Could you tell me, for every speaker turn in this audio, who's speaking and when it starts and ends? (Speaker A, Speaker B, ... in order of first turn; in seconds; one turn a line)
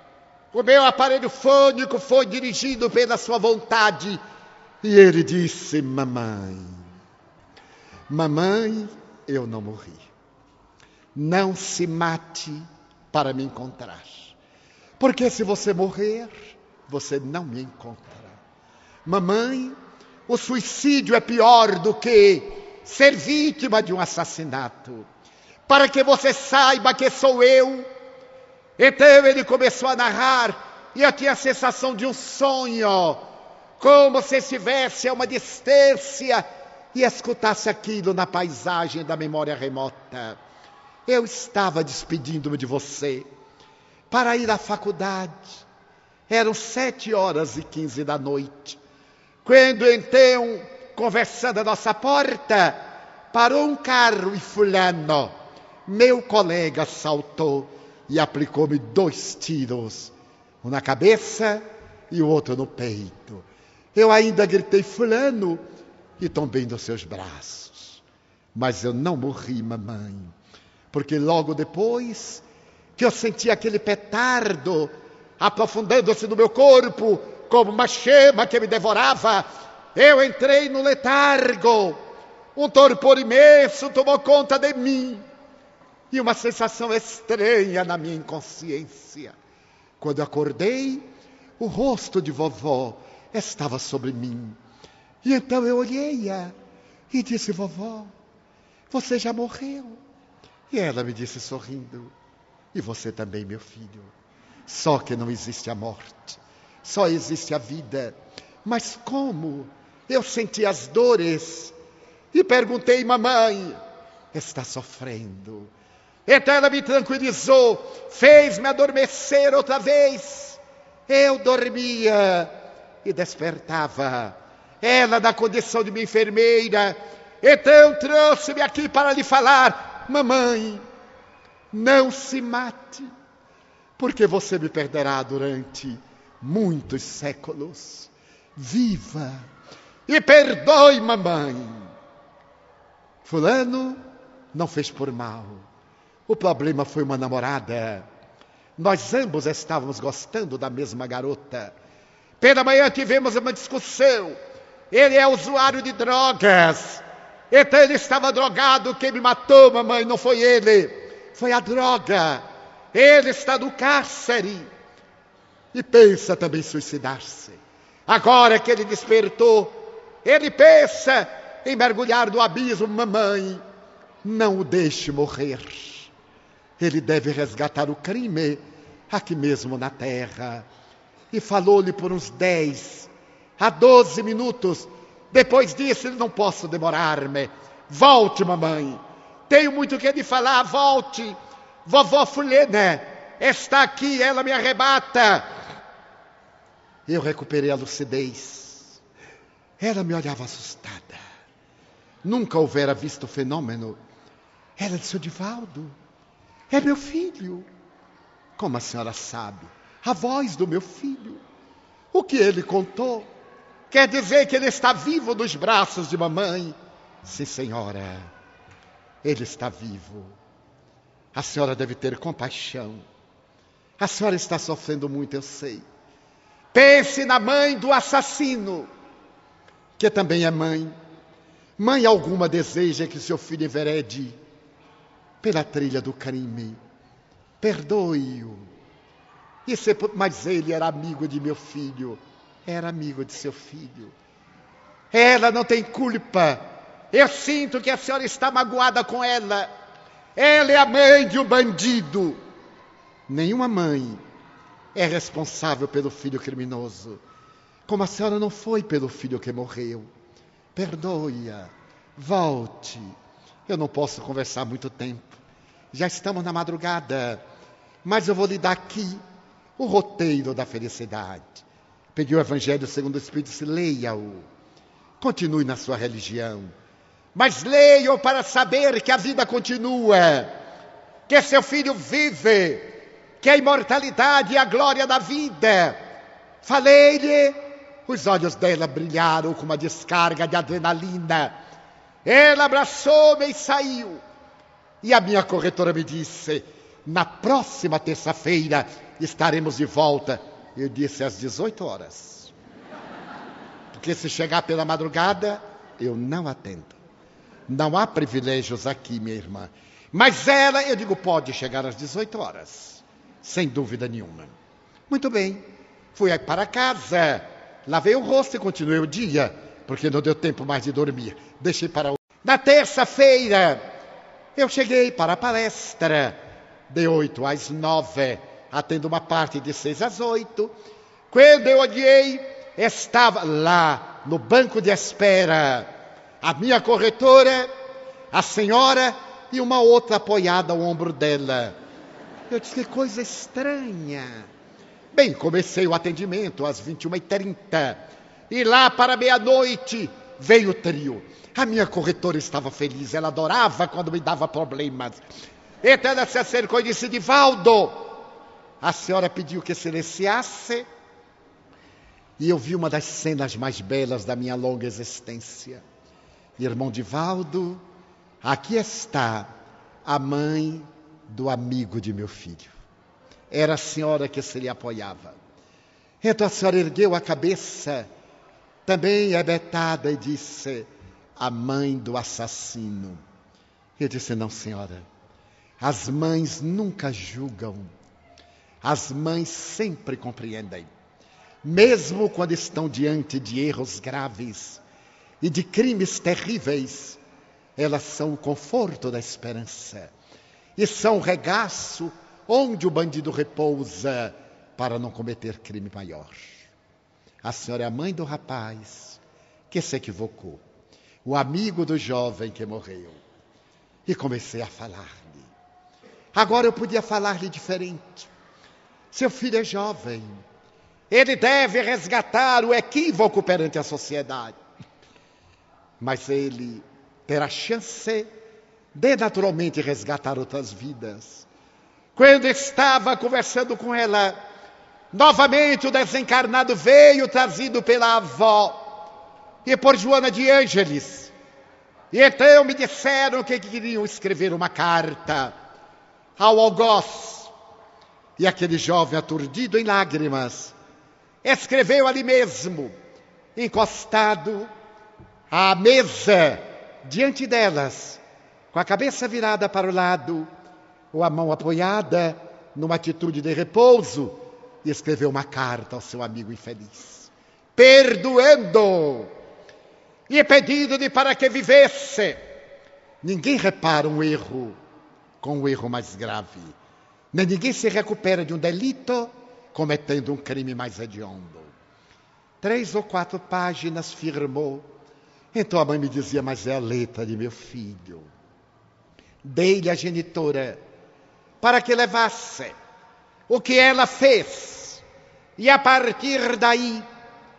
Speaker A: 0.5-4.2
Speaker A: 4.8-6.8
Speaker A: 8.1-10.1
Speaker A: 11.2-14.3
Speaker A: 15.0-18.4
Speaker A: 19.1-25.1
Speaker A: 25.7-27.9
Speaker A: 28.8-33.3
Speaker A: 33.8-40.4
Speaker A: 41.1-43.3
Speaker A: 44.1-45.6
Speaker A: 46.3-48.8
Speaker A: 49.5-55.3
Speaker A: 55.9-65.6
Speaker A: 66.2-68.0
Speaker A: 68.5-70.3
Speaker A: 70.9-72.4
Speaker A: 73.0-82.0
Speaker A: 82.5-85.2
Speaker A: 86.1-89.3
Speaker A: 90.0-91.1
Speaker A: 91.6-94.6
Speaker A: 95.2-96.5
Speaker A: 97.1-98.1
Speaker A: 98.9-100.0
Speaker A: 100.7-102.1
Speaker A: 102.7-104.1
Speaker A: 104.7-111.8
Speaker A: 112.3-113.8
Speaker A: 114.3-115.7
Speaker A: 116.3-130.8
Speaker A: 131.7-133.1
Speaker A: 134.0-139.5
Speaker A: 140.1-141.9
Speaker A: 143.2-144.0
Speaker A: 144.5-145.7
Speaker A: 146.3-148.1
Speaker A: 148.8-151.7
Speaker A: 152.4-154.4
Speaker A: 154.9-164.7
Speaker A: 165.7-173.6
Speaker A: 174.2-176.1
Speaker A: 176.8-180.7
Speaker A: 181.3-195.5
Speaker A: 197.1-199.0
Speaker A: 199.8-201.2
Speaker A: 202.2-204.0
Speaker A: 204.8-206.0
Speaker A: 206.7-207.7
Speaker A: 208.6-211.4
Speaker A: 212.1-213.3
Speaker A: 213.9-218.3
Speaker A: 219.2-220.3
Speaker A: 221.3-223.0
Speaker A: 224.0-225.8
Speaker A: 226.7-228.9
Speaker A: 230.0-230.9
Speaker A: 231.8-234.4
Speaker A: 235.4-236.8
Speaker A: 237.6-238.7
Speaker A: 239.7-244.1
Speaker A: 245.1-249.7
Speaker A: 250.4-252.4
Speaker A: 253.3-254.2
Speaker A: 254.9-257.2
Speaker A: 257.9-260.1
Speaker A: 260.8-263.1
Speaker A: 263.7-265.4
Speaker A: 265.9-267.4
Speaker A: 268.0-269.2
Speaker A: 269.8-274.5
Speaker A: 275.2-276.7
Speaker A: 277.4-280.5
Speaker A: 281.3-286.0
Speaker A: 286.6-291.6
Speaker A: 292.2-294.2
Speaker A: 295.0-302.5
Speaker A: 303.9-307.0
Speaker A: 307.7-314.5
Speaker A: 315.1-323.9
Speaker A: 324.6-326.4
Speaker A: 326.9-330.8
Speaker A: 331.3-335.9
Speaker A: 336.4-337.7
Speaker A: 338.3-341.8
Speaker A: 342.5-344.5
Speaker A: 345.1-355.2
Speaker A: 355.8-358.2
Speaker A: 358.8-360.9
Speaker A: 362.4-365.8
Speaker A: 366.6-367.8
Speaker A: 368.4-369.5
Speaker A: 370.1-372.7
Speaker A: 373.5-375.4
Speaker A: 376.2-378.1
Speaker A: 378.9-383.2
Speaker A: 384.0-385.1
Speaker A: 385.8-387.9
Speaker A: 388.8-390.9
Speaker A: 391.6-394.8
Speaker A: 395.4-397.2
Speaker A: 397.8-400.1
Speaker A: 400.8-406.5
Speaker A: 407.4-409.2
Speaker A: 409.7-410.6
Speaker A: 411.2-413.2
Speaker A: 414.1-415.5
Speaker A: 416.4-418.3
Speaker A: 419.1-420.4
Speaker A: 421.1-424.6
Speaker A: 426.0-428.3
Speaker A: 428.9-431.5
Speaker A: 432.2-434.4
Speaker A: 435.1-438.9
Speaker A: 439.6-441.3
Speaker A: 442.1-445.6
Speaker A: 446.4-447.5
Speaker A: 448.4-450.8
Speaker A: 451.4-452.9
Speaker A: 453.6-454.7
Speaker A: 455.5-458.2
Speaker A: 458.7-460.5
Speaker A: 461.1-469.3
Speaker A: 470.3-472.4
Speaker A: 473.2-474.8
Speaker A: 475.4-476.8
Speaker A: 477.3-481.7
Speaker A: 482.6-484.9
Speaker A: 485.5-488.3
Speaker A: 489.4-490.8
Speaker A: 491.6-492.8
Speaker A: 493.5-495.0
Speaker A: 495.6-497.1